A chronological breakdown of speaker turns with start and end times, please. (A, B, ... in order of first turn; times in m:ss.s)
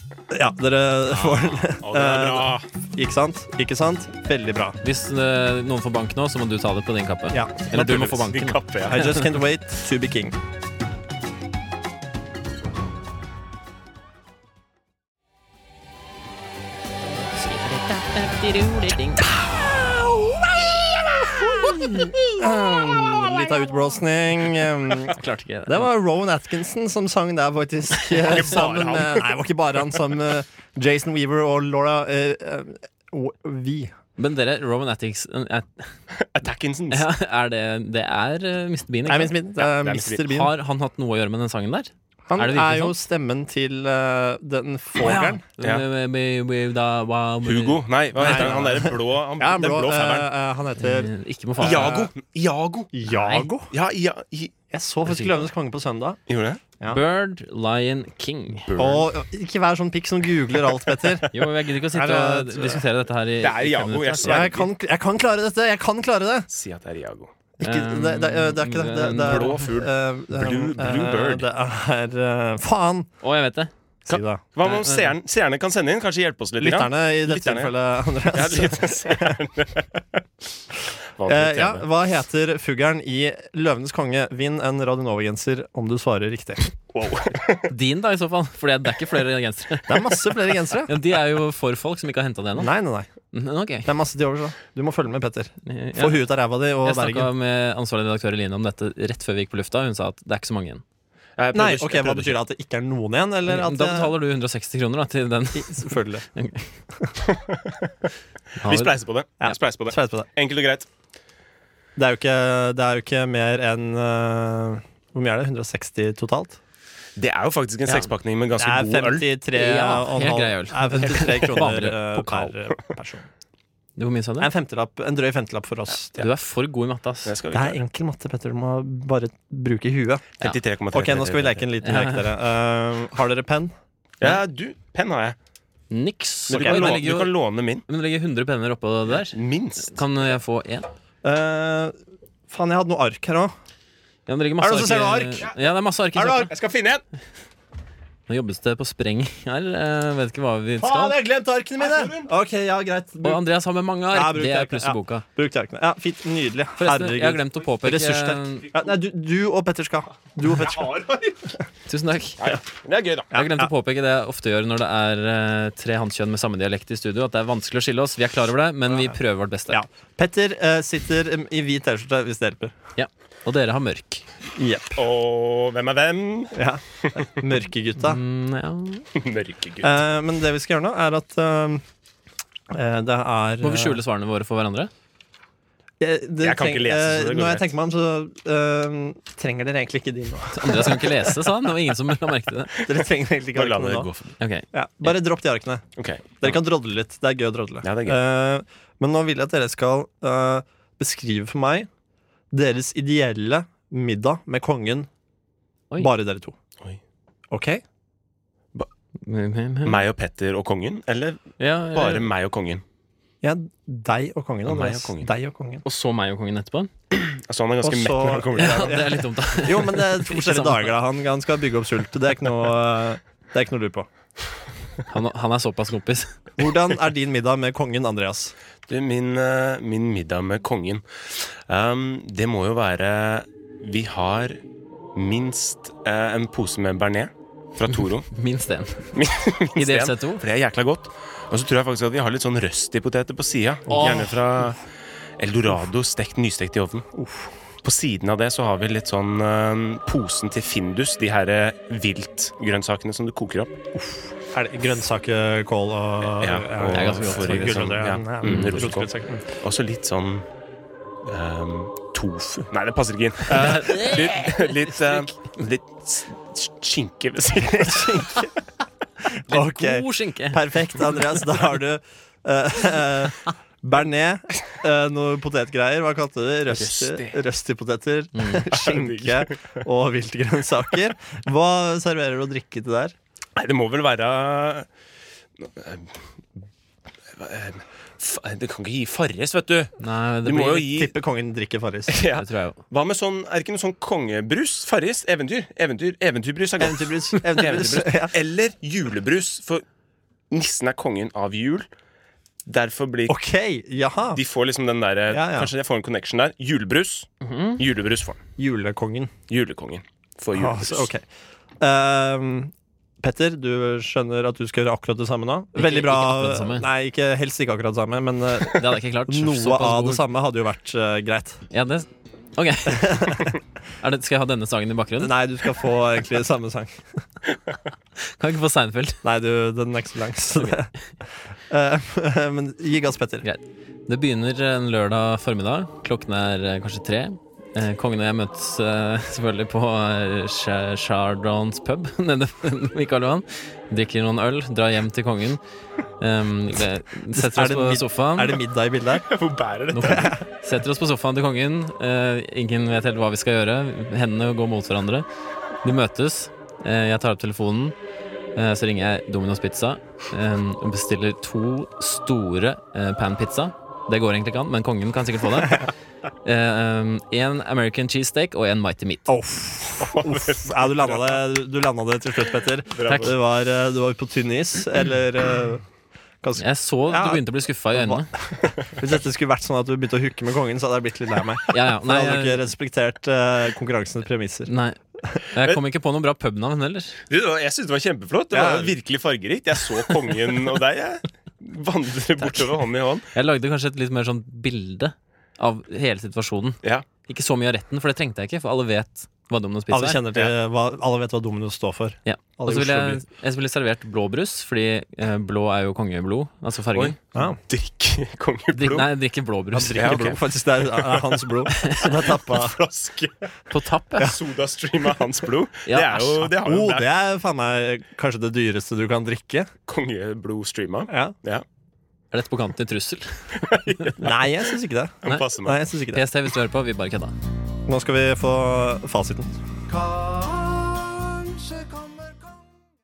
0:00.3-0:04.8 A
0:01.6-0:02.6 B
0:04.8-0:09.2 C
0:07.3-0:07.6 A
0:07.7-0:09.0 B
0:08.9-0:10.4 A
0:17.4-0:19.3 C
0:19.3-0:33.9 A
0:21.6-0:22.1 C
0:25.1-0:25.9 C
0:28.2-0:29.4 B
0:34.2-0:35.9 C
0:36.1-0:37.1 B
0:36.9-0:39.3 C
0:39.0-0:40.5 A
0:39.6-0:40.2 B
0:40.2-0:42.9 C
0:42.3-0:45.4 A
0:45.0-0:48.7 C
0:45.6-0:45.8 B
0:47.4-0:50.3 B
0:48.2-0:51.1 A
0:50.8-0:52.1 C
0:51.6-0:52.9 B
0:52.9-0:53.7 A
0:53.1-0:53.5 C
0:53.7-0:54.5 B
0:54.7-0:56.2 A
0:55.1-0:55.4 C
0:56.3-0:56.6 B
0:56.8-0:58.7 C
0:58.7-0:59.1 B
0:58.8-1:02.8 A
1:01.3-1:04.5 C
1:03.4-1:04.7 B
1:04.2-1:06.5 A
1:06.5-1:07.3 B
1:07.6-1:13.1 A
1:07.6-1:09.6 C
1:09.2-1:11.4 B
1:13.2-1:13.7 C
1:14.0-1:14.4 A
1:14.1-1:17.7 B
1:14.6-1:15.1 C
1:16.6-1:19.4 A
1:18.3-1:19.9 B
1:21.2-1:21.8 B
1:21.3-1:26.7 A
1:26.9-1:27.7 B
1:27.7-1:32.7 C
1:29.9-1:31.0 A
1:32.6-1:33.1 A
1:33.3-1:33.9 C
1:33.8-1:37.3 A
1:35.6-1:36.2 C
1:36.8-1:40.8 C
1:41.4-1:42.4 B
1:41.5-1:44.1 A
1:43.4-1:46.7 C
1:45.5-1:46.2 A
1:47.3-1:47.7 B
1:48.6-1:48.9 C
1:48.6-1:50.9 B
1:49.4-1:50.3 A
1:52.0-1:56.6 A
1:57.2-1:59.3 B
1:58.6-2:03.3 A
1:59.5-2:02.5 C
2:04.0-2:04.5 C
2:04.4-2:06.1 A
2:06.2-2:07.3 C
2:07.2-2:07.8 B
2:07.5-2:10.3 A
2:10.4-2:11.6 B
2:10.9-2:13.7 A
2:11.8-2:12.3 C
2:14.2-2:15.4 B
2:15.9-2:17.3 C
2:16.5-2:17.8 B
2:16.6-2:17.0 A
2:17.9-2:20.9 C
2:19.1-2:20.0 B
2:21.2-2:21.9 A
2:22.5-2:23.5 A
2:24.3-2:26.5 C
2:24.6-2:25.5 A
2:26.1-2:27.0 B
2:28.3-2:31.2 C
2:30.8-2:33.4 A
2:31.8-2:32.3 B
2:33.2-2:35.2 C
2:34.1-2:41.0 A
2:36.8-2:38.7 C
2:40.4-2:41.5 B
2:41.9-2:42.5 C
2:42.4-2:43.3 B
2:43.3-2:43.7 A
2:43.3-2:49.8 C
2:49.7-2:52.7 A
2:53.0-2:54.2 C
2:54.6-2:55.0 A
2:55.0-2:57.2 B
2:56.5-2:58.2 A
2:58.0-2:59.0 C
2:59.1-2:59.9 B
2:59.8-3:01.8 A
3:02.7-3:04.0 A
3:03.6-3:04.9 C
3:06.0-3:11.4 A
3:06.4-3:07.7 B
3:10.5-3:12.7 C
3:12.8-3:14.1 A
3:13.5-3:14.4 B
3:14.4-3:15.1 C
3:14.7-3:15.8 A
3:16.0-3:16.3 B
3:16.4-3:21.9 A
3:17.8-3:18.2 B
3:22.5-3:25.1 A
3:26.0-3:26.5 A
3:27.5-3:27.8 A
3:29.2-3:30.0 C
3:29.8-3:32.8 B
3:31.6-3:32.3 C
3:33.4-3:35.8 A
3:34.6-3:35.3 B
3:35.8-3:36.9 C
3:37.1-3:39.1 B
3:37.8-3:44.1 A
3:38.6-3:40.9 C
3:45.1-3:46.4 C
3:46.6-3:48.5 A
3:48.9-3:54.6 B
3:55.1-3:58.3 B
3:57.9-3:59.1 C
3:59.1-4:04.8 B
3:59.8-4:00.4 C
4:03.9-4:04.3 A
4:03.9-4:04.3 C
4:05.4-4:07.1 B
4:07.1-4:07.5 A
4:07.8-4:13.8 B
4:13.9-4:19.5 A
4:16.4-4:20.4 B
4:16.9-4:17.9 C
4:18.4-4:18.7 C
4:21.2-4:28.4 B
4:23.5-4:24.0 A
4:23.5-4:25.2 C
4:27.6-4:28.5 A
4:29.2-4:43.1 A
4:29.5-4:30.6 C
4:36.7-4:37.4 B
4:38.3-4:38.7 C
4:38.7-4:39.8 B
4:43.6-4:44.9 B
4:45.6-4:46.1 B
4:47.4-4:51.1 B
4:50.0-4:50.9 C
4:50.8-4:52.2 A
4:52.1-4:59.8 B
4:52.4-4:52.8 C
4:56.8-4:58.3 A
5:00.5-5:01.9 B
5:02.6-5:03.4 B
5:03.3-5:04.4 A
5:04.3-5:08.4 B
5:05.3-5:05.7 A
5:07.4-5:07.8 C
5:08.6-5:09.3 A
5:09.5-5:11.1 B
5:10.5-5:11.2 A
5:11.8-5:21.6 A
5:15.8-5:16.9 C
5:18.6-5:20.2 C
5:21.7-5:25.3 C
5:22.9-5:23.5 A
5:25.2-5:27.0 A
5:28.4-5:29.2 C
5:29.2-5:30.9 A
5:31.7-5:33.4 A
5:33.4-5:45.6 C
5:46.2-5:48.6 C
5:47.3-5:49.3 A
5:49.2-5:50.3 B
5:49.9-5:55.2 C
5:50.0-5:50.4 A
5:55.8-5:57.9 C
5:58.6-6:05.9 C
6:06.4-6:09.3 C
6:09.3-6:15.8 A
6:10.0-6:11.4 B
6:12.9-6:13.3 B
6:16.4-6:24.7 A
6:16.6-6:18.3 C
6:21.7-6:22.6 C
6:24.7-6:25.0 C
6:25.5-6:27.2 C
6:27.3-6:33.3 B
6:28.5-6:28.9 A
6:33.3-6:40.2 C
6:39.9-6:43.2 A
6:42.2-6:47.2 C
6:46.9-6:49.1 B
6:48.7-6:50.3 C
6:49.7-6:52.8 A
6:50.0-6:50.4 B
6:50.9-6:51.4 B
6:51.8-6:52.1 C
6:52.3-6:53.3 B
6:53.7-6:54.3 C
6:54.2-6:57.1 B
6:55.8-6:56.5 C
6:56.6-6:59.7 A
6:59.9-7:01.6 B
7:01.1-7:01.3 A
7:02.3-7:04.1 C
7:03.6-7:04.4 B
7:04.2-7:06.2 A
7:05.2-7:05.8 B
7:06.1-7:07.3 C
7:07.9-7:09.6 A